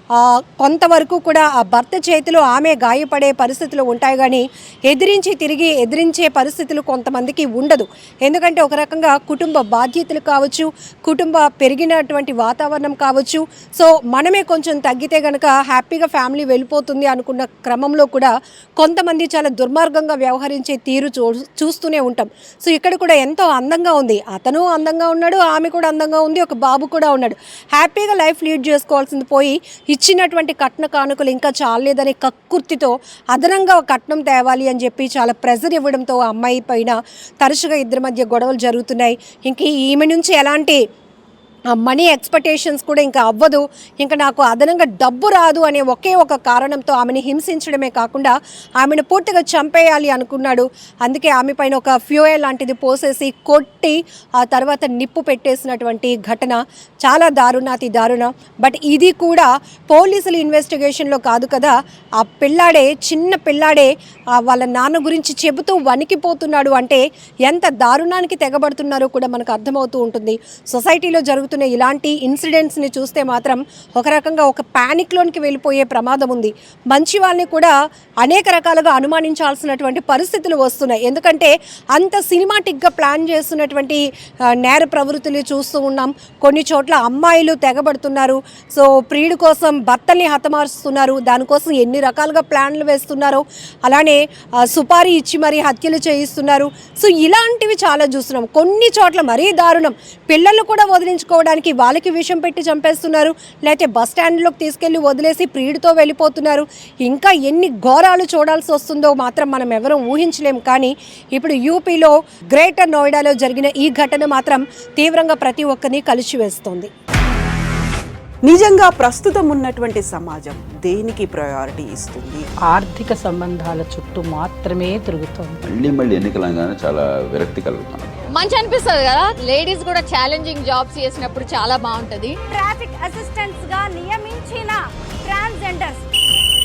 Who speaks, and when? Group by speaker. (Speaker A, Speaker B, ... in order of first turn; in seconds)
Speaker A: 0.1-40.8, 41.7-84.0, 84.5-116.9
Speaker B: 118.4-122.5
Speaker C: 122.6-125.6
Speaker D: 125.7-128.1
Speaker E: 128.3-132.4
Speaker F: 132.5-136.1